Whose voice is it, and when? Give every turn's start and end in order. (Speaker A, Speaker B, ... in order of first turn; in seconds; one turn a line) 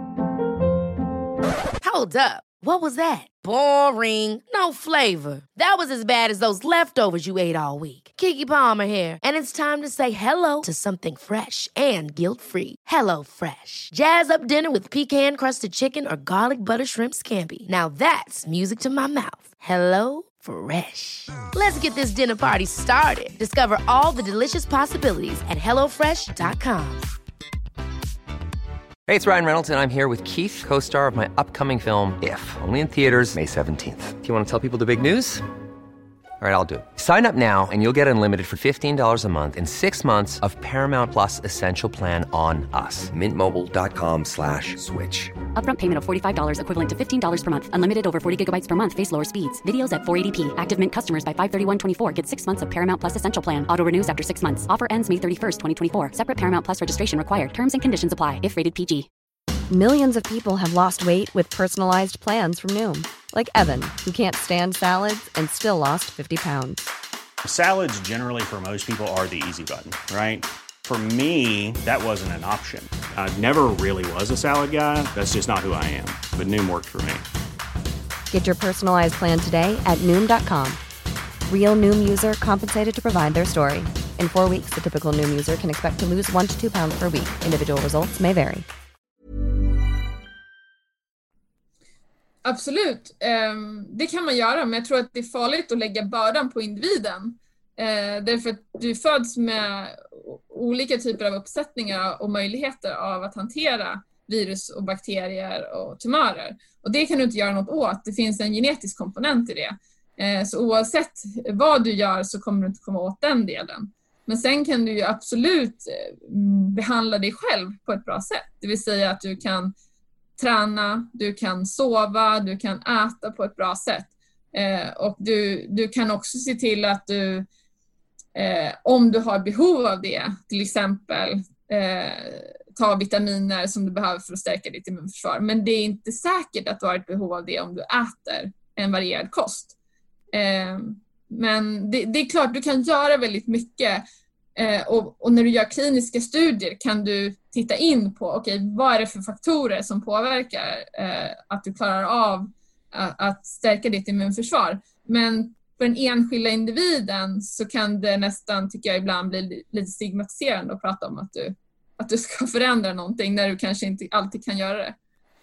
Speaker A: 1.8-27.1
Speaker B: 29.1-35.4
Speaker B: 36.4-45.3
Speaker C: 45.5-59.1
Speaker D: 59.7-66.8
Speaker E: 67.4-77.2
Speaker D: 78.3-80.8
Speaker D: 81.5-88.7
Speaker F: 92.4-119.7
Speaker F: 120.4-127.5
Speaker F: 128.3-139.7
Speaker F: 140.3-144.0
Speaker F: 144.6-164.9